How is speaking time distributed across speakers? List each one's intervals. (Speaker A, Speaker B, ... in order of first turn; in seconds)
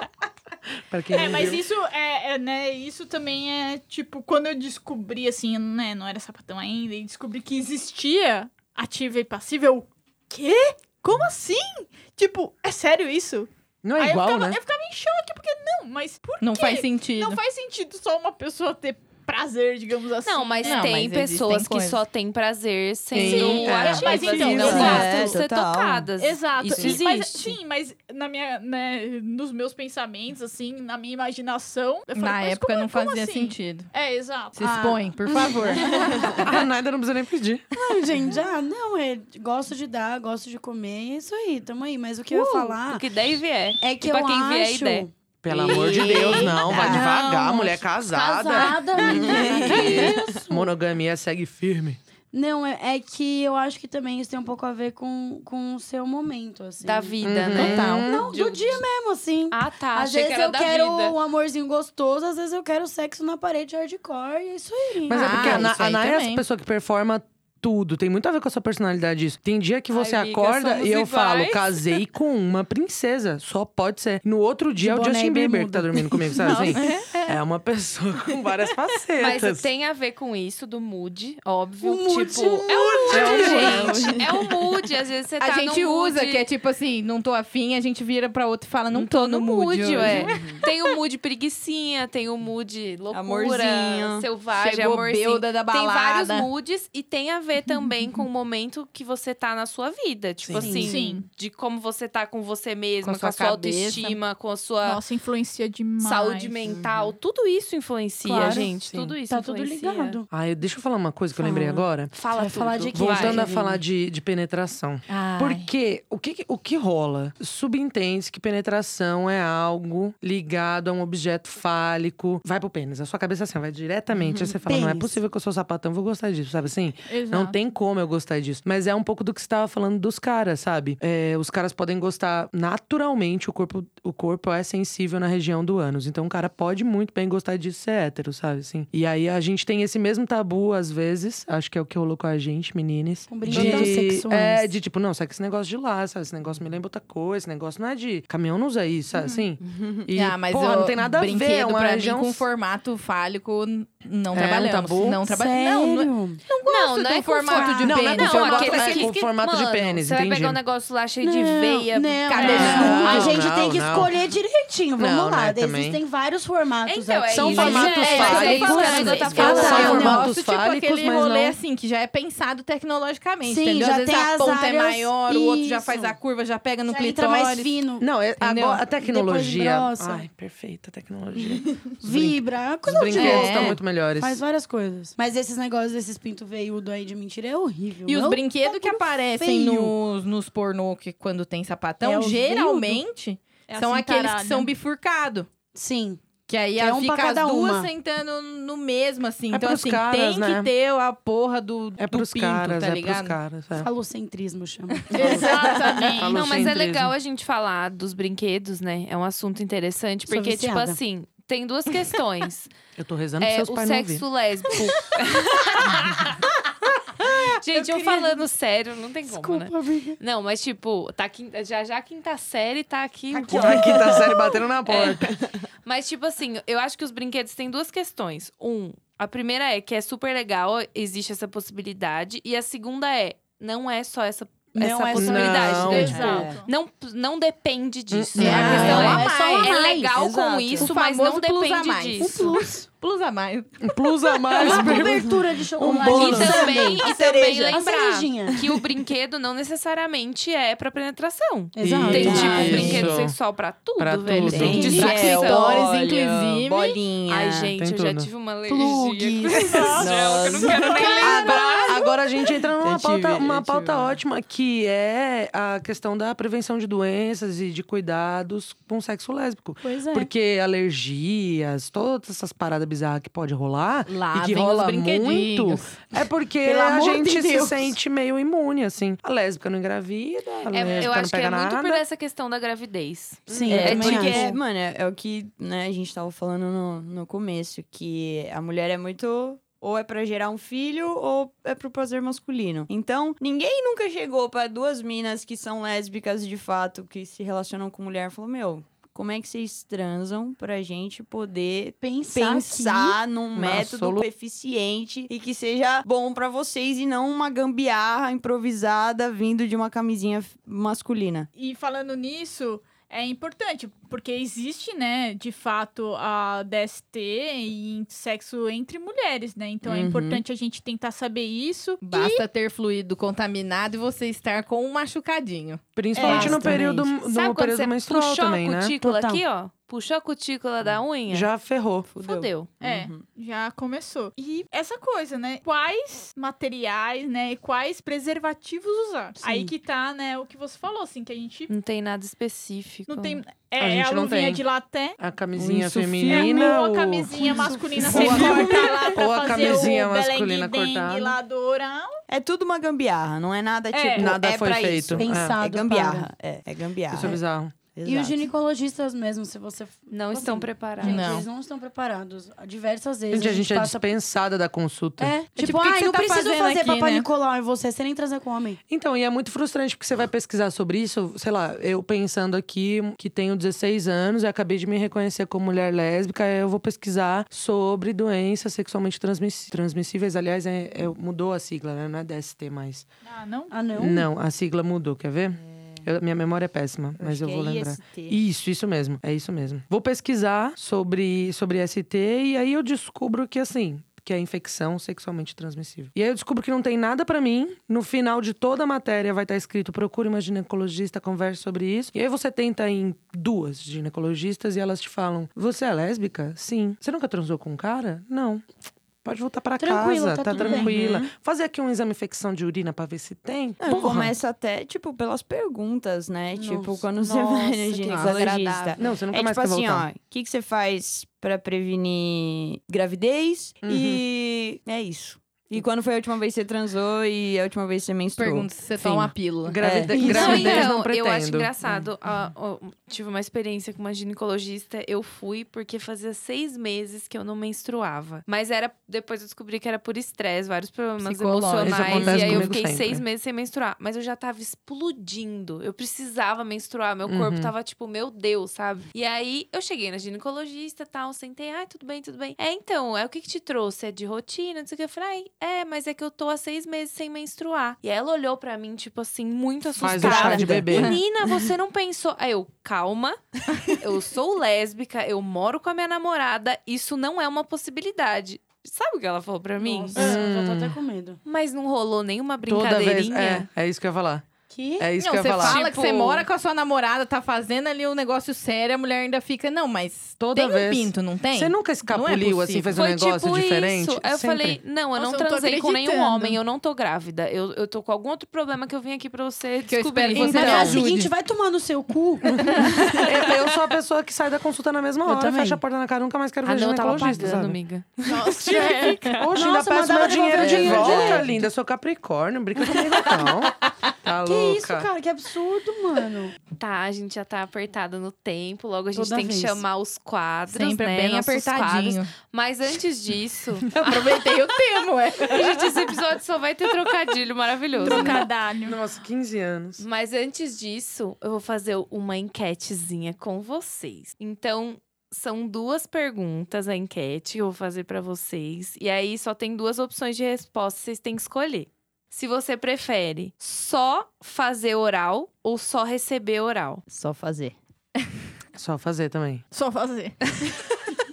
Speaker A: 0.9-1.6, 13.8-14.6, 23.1-25.1, 36.2-37.6, 45.4-52.0, 57.2-58.2, 65.1-79.7, 83.1-84.0, 100.4-100.8, 108.4-109.2, 110.3-112.1, 112.9-152.4, 154.3-155.2, 157.8-160.6, 162.6-164.2, 165.0-166.0, 167.3-171.6, 178.0-184.4, 199.5-200.7, 202.0-203.9, 206.2-207.1, 213.0-214.9, 223.5-225.3, 235.1-236.4, 238.1-239.3, 243.8-246.7, 251.8-253.4, 254.0-255.2, 257.8-258.3, 261.2-282.0, 283.5-284.3, 303.5-304.2, 325.9-329.0, 331.3-332.1, 343.8-344.6, 345.2-351.4, 354.2-355.6, 357.1-357.8, 363.3-365.4, 368.9-383.1, 383.9-408.7, 409.2-414.4, 419.0-420.1, 423.8-424.2, 429.7-431.7, 441.8-443.2, 447.3-447.7, 460.0-461.2, 470.1-471.0, 472.7-474.5, 475.0-475.8, 480.4-484.8, 490.3-491.0, 492.4-497.8, 499.3-505.1, 518.0-520.0, 538.8-539.6
Speaker B: 1.1-21.0, 23.2-25.4, 26.2-34.8, 76.4-77.2, 100.8-101.3, 104.8-106.6, 127.1-127.6, 149.2-149.4, 162.4-163.1, 193.7-194.7, 205.1-206.7, 235.8-236.7, 259.7-260.2, 260.7-261.2, 311.6-322.4, 326.1-326.7, 332.8-341.7, 343.1-345.2, 346.3-352.2, 353.9-354.4, 383.2-383.8, 485.2-486.6, 498.2-499.4, 518.0-519.0, 539.7-540.7
Speaker C: 16.4-17.4, 20.6-22.0, 32.1-33.9, 34.5-36.5, 45.7-46.5, 57.5-58.1, 65.1-66.4, 85.4-90.4, 94.5-96.5, 103.0-104.2, 115.1-115.5, 150.1-159.1, 162.3-163.4, 167.5-177.8, 178.4-178.8, 183.1-183.8, 188.1-195.5, 196.5-203.4, 205.0-205.3, 238.4-239.7, 240.8-244.3, 252.6-253.0, 254.6-257.0, 274.1-276.0, 322.0-325.8, 361.0-361.5, 365.4-367.3, 428.4-430.9, 441.2-442.2, 460.7-461.1, 475.2-482.9, 489.9-491.3, 492.7-493.0, 500.8-501.1, 510.7-512.3, 514.0-516.1
Speaker D: 20.2-27.6, 42.3-47.1, 48.0-50.1, 56.8-58.8, 59.5-61.2, 69.9-72.0, 79.2-86.5, 88.9-105.0, 106.0-110.2, 112.1-113.5, 115.1-115.7, 156.5-163.3, 166.9-170.2, 206.3-212.7, 213.4-216.4, 217.2-224.0, 224.9-225.3, 225.8-242.6, 246.1-255.9, 257.3-262.1, 280.7-284.6, 327.2-331.5, 332.2-332.7, 341.7-343.4, 360.1-361.4, 417.2-419.0, 430.2-470.4, 471.4-473.7, 475.6-476.5, 482.9-491.0, 496.6-499.3, 506.8-514.5, 515.4-518.5, 520.0-537.0
Speaker E: 24.4-26.1, 49.0-50.4, 83.1-84.6, 90.0-90.6, 93.1-94.3, 106.7-107.2, 149.6-150.1, 223.3-225.6, 236.2-236.6, 240.0-240.9, 244.6-245.3, 246.0-247.9, 252.1-253.1, 254.4-257.7, 258.8-259.1, 259.9-261.2, 262.8-264.2, 280.6-281.1, 283.7-311.5, 319.9-320.4, 332.1-333.3, 352.3-358.5, 387.2-388.4, 410.6-411.3, 413.8-430.8, 442.1-442.7, 500.6-501.5, 537.1-537.8
Speaker F: 34.6-36.5, 37.7-43.1, 43.8-45.1, 45.7-50.7, 52.3-57.2, 57.8-65.8, 74.8-76.8, 81.8-84.0, 100.5-100.9, 108.2-108.7, 109.3-110.3, 111.4-113.8, 124.6-125.2, 143.3-144.7, 155.3-156.4, 161.2-170.3, 173.4-176.2, 176.9-178.1, 179.0-180.3, 182.0-189.9, 192.0-193.0, 195.7-196.2, 196.8-197.9, 203.8-205.8, 210.3-211.0, 217.7-218.4, 219.2-220.2, 234.7-236.2, 238.4-240.2, 242.2-242.9, 244.6-247.1, 247.7-248.6, 251.8-253.1, 254.6-255.2, 258.7-259.9, 260.9-261.5, 269.8-270.3, 276.6-278.0, 283.5-284.6, 302.0-303.2, 326.2-327.1, 329.0-329.4, 339.4-339.7, 345.6-346.7, 347.3-349.7, 355.2-356.3, 358.1-364.1, 365.2-368.8, 383.7-384.3, 409.8-411.0, 416.6-418.4, 469.8-471.4, 474.7-475.1, 490.4-493.1, 495.2-495.8, 499.5-501.6, 504.4-506.6, 509.1-509.8